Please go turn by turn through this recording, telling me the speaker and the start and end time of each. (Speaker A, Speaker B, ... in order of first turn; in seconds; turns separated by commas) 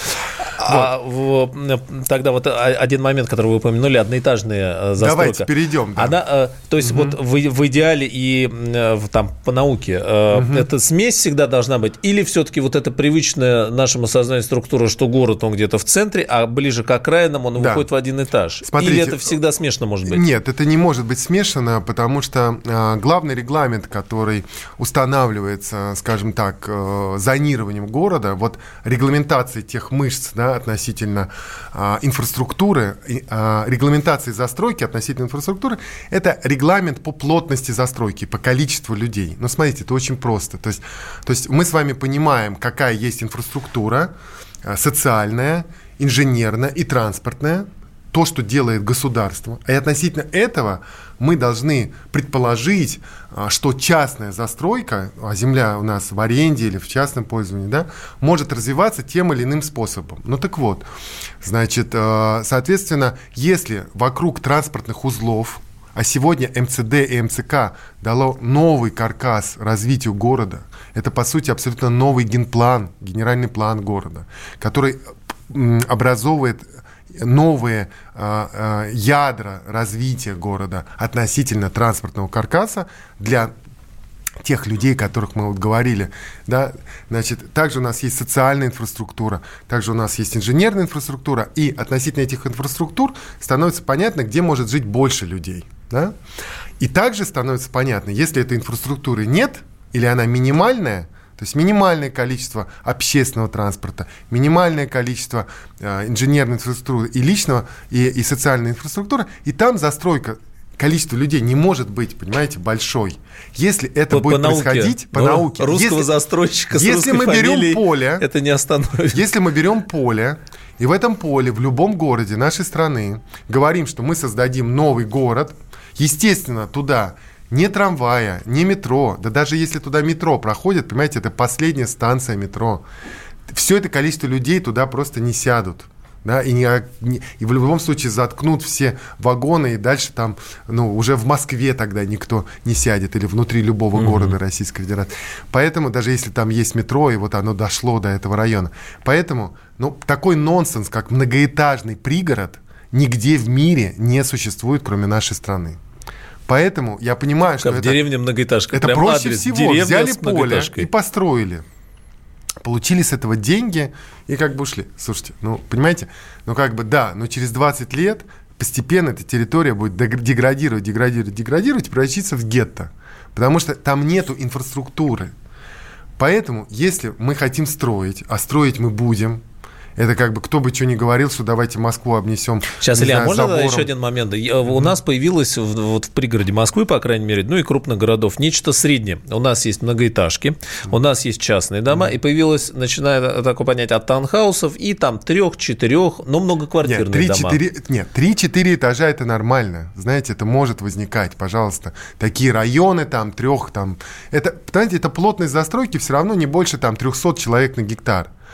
Speaker A: 0.4-20.2, Speaker B: 0.6-0.9, Speaker B: 5.0-6.2, Speaker B: 6.8-7.2, Speaker B: 10.3-10.7, Speaker B: 17.6-17.9, Speaker B: 18.6-19.4, Speaker B: 20.1-60.9, Speaker B: 61.4-83.5, Speaker B: 84.4-96.2, Speaker B: 96.8-116.1, Speaker A: 114.1-119.2, Speaker B: 116.7-118.2, Speaker B: 119.1-132.8, Speaker B: 133.5-155.8, Speaker A: 143.9-144.3, Speaker B: 156.5-158.0, Speaker A: 157.6-160.9, Speaker B: 158.7-161.7, Speaker B: 162.6-175.3, Speaker B: 176.2-179.4, Speaker B: 180.0-183.9, Speaker A: 182.8-197.6, Speaker B: 196.8-208.3